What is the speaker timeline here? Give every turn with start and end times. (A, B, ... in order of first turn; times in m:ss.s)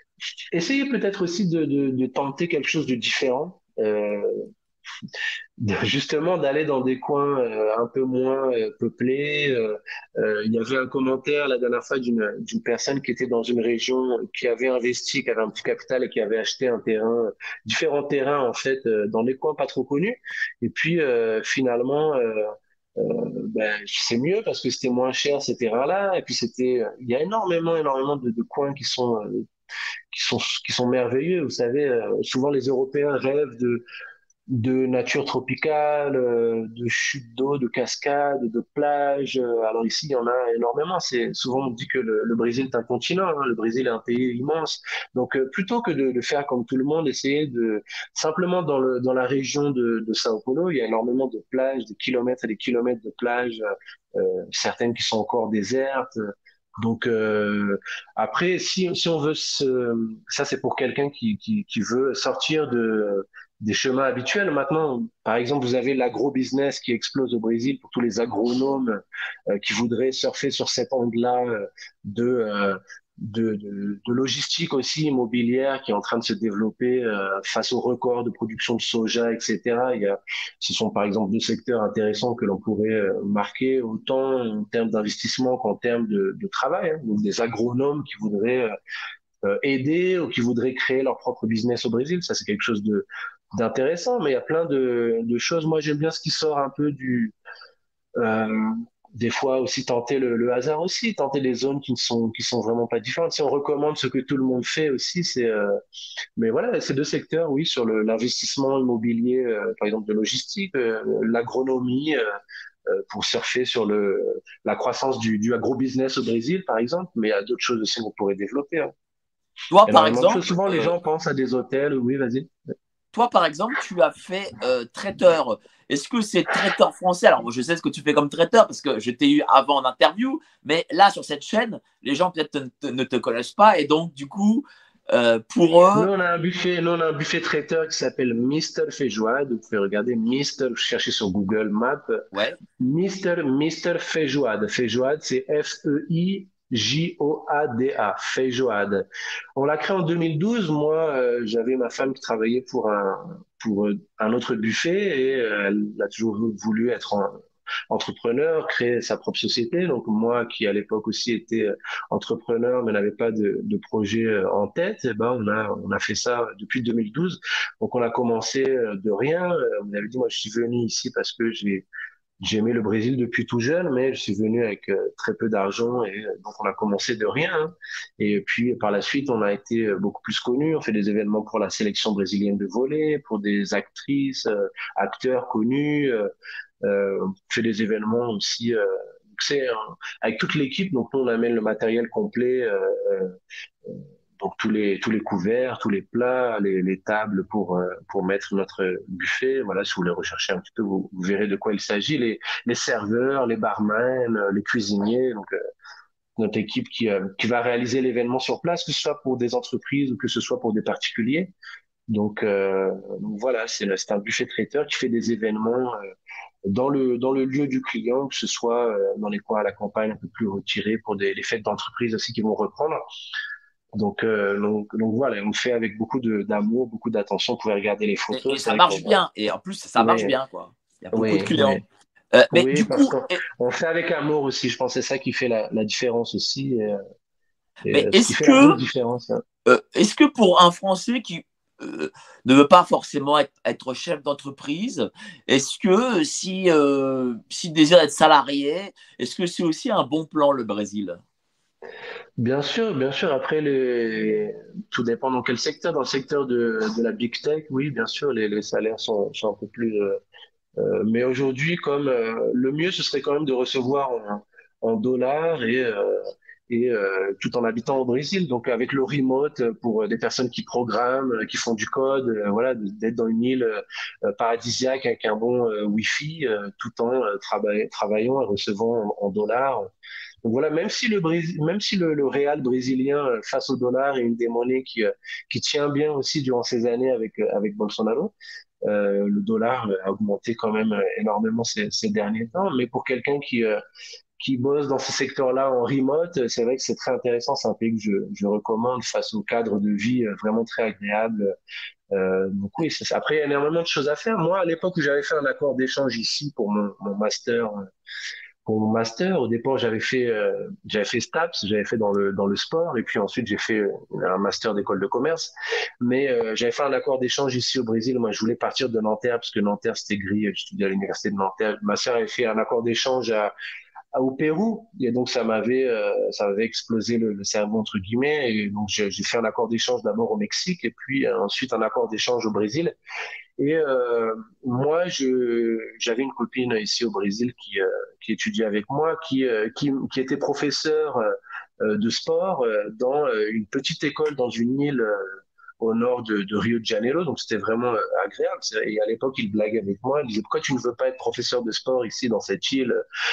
0:00.5-0:04.4 A
0:05.6-0:29.4 A
0:30.1-0:33.8 A
0:34.5-0:53.6 A
0:54.1-0:56.2 A
0:56.8-1:09.0 A
1:09.5-1:28.7 A
1:29.4-1:37.3 A
1:38.2-1:45.8 A
1:46.4-1:52.2 A
1:52.9-1:58.9 A
1:59.7-2:00.9 B
1:59.9-2:02.5 A
2:03.1-2:16.1 B
2:15.9-2:22.2 A
2:22.3-2:22.6 B
2:22.8-2:37.4 A
2:37.9-2:51.8 A
2:52.4-3:06.3 A
3:06.8-3:25.5 A
3:26.4-3:31.5 A
3:32.1-3:36.0 A
3:36.7-3:43.0 A
3:43.9-3:49.2 A
3:48.3-3:51.8 B
3:50.0-3:50.3 A
3:51.1-3:51.8 A
3:52.3-3:53.3 B
3:52.5-3:57.0 A
3:57.9-3:59.4 A
3:57.9-3:58.8 B
3:59.6-4:11.2 B
4:12.4-4:20.2 A
4:20.8-4:39.9 A
4:40.4-4:48.3 A
4:48.8-4:53.8 A
4:54.4-5:01.5 A
5:02.1-5:07.8 A
5:08.6-5:23.5 A
5:24.1-5:32.9 A
5:33.6-5:41.3 A
5:41.8-5:53.0 A